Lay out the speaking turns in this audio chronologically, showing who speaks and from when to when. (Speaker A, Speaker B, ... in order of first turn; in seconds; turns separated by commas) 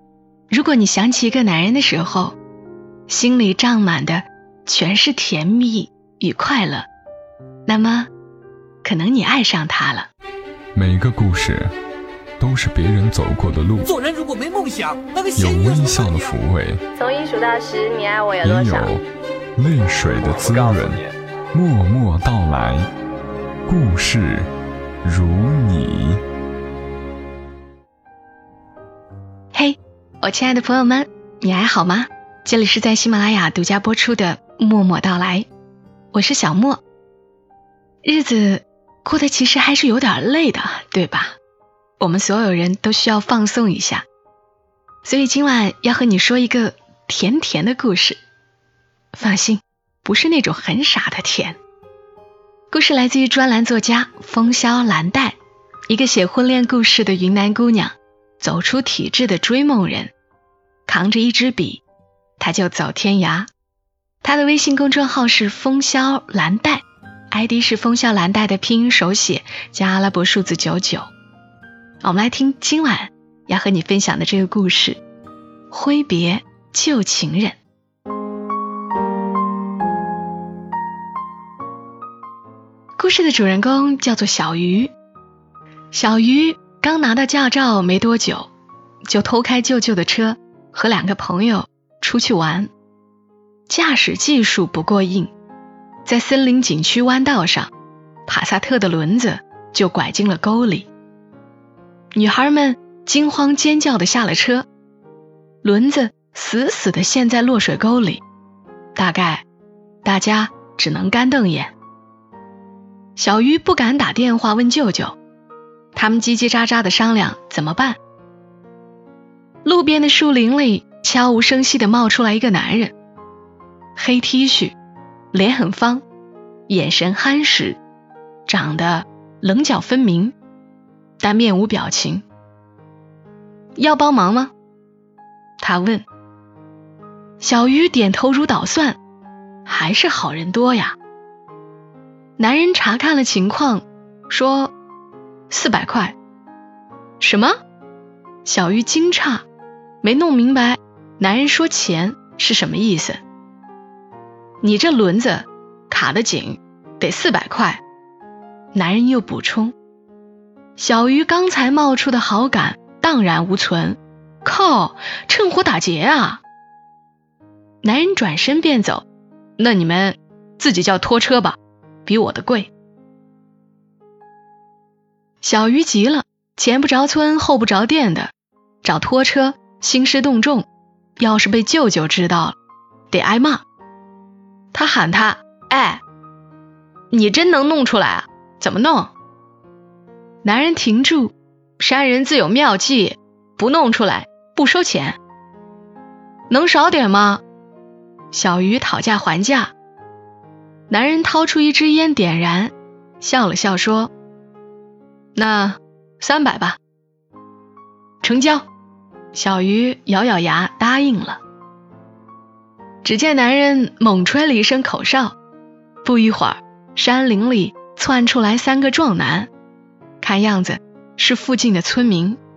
Speaker A: 0.5-2.4, Speaker A: 3.1-6.9, Speaker A: 7.7-8.1, Speaker A: 8.8-10.1, Speaker B: 10.8-11.7, Speaker B: 12.4-13.9, Speaker C: 13.8-16.4, Speaker B: 15.4-16.8, Speaker D: 17.0-18.9, Speaker B: 18.4-19.0, Speaker B: 19.6-22.9, Speaker D: 20.3-20.9, Speaker B: 23.7-24.4, Speaker B: 25.0-26.2, Speaker A: 29.5-35.5, Speaker A: 36.1-36.8, Speaker A: 38.0-41.4, Speaker A: 42.0-44.0, Speaker A: 45.0-48.2, Speaker A: 49.1-51.6, Speaker A: 52.7-55.4, Speaker A: 55.9-60.1, Speaker A: 60.9-61.8, Speaker A: 62.4-63.5, Speaker A: 64.2-71.1, Speaker A: 72.0-75.0, Speaker A: 75.7-77.6, Speaker A: 83.0-84.9, Speaker A: 85.9-88.5, Speaker A: 89.1-92.7, Speaker A: 93.7-95.3, Speaker A: 96.1-97.7, Speaker A: 98.3-100.9, Speaker A: 102.2-104.7, Speaker A: 105.6-108.2, Speaker A: 109.0-109.5, Speaker A: 110.0-111.7, Speaker A: 113.2-115.2, Speaker A: 116.0-118.0, Speaker A: 119.6-122.9, Speaker A: 124.0-124.8, Speaker A: 125.3-126.0, Speaker A: 126.7-127.8, Speaker A: 128.5-130.3, Speaker A: 131.2-132.2, Speaker A: 133.8-134.5, Speaker A: 135.6-136.1, Speaker A: 137.4-139.0, Speaker A: 139.7-141.0, Speaker A: 142.4-144.7, Speaker A: 145.5-146.2, Speaker A: 147.2-147.6, Speaker A: 148.4-149.4, Speaker A: 150.0-153.2, Speaker A: 154.6-157.8, Speaker A: 158.7-159.7, Speaker A: 160.8-166.4, Speaker A: 167.8-169.1, Speaker A: 169.6-172.7, Speaker A: 175.4-178.3, Speaker A: 178.8-180.7, Speaker A: 181.2-182.6, Speaker A: 183.1-183.6, Speaker A: 184.7-186.0, Speaker A: 187.1-189.1, Speaker A: 190.4-195.2, Speaker A: 196.5-197.4, Speaker A: 198.3-199.7, Speaker A: 200.9-204.1, Speaker A: 205.3-206.8, Speaker A: 208.2-208.7, Speaker A: 209.3-211.4, Speaker A: 213.0-215.4, Speaker A: 216.0-219.5, Speaker A: 220.2-222.4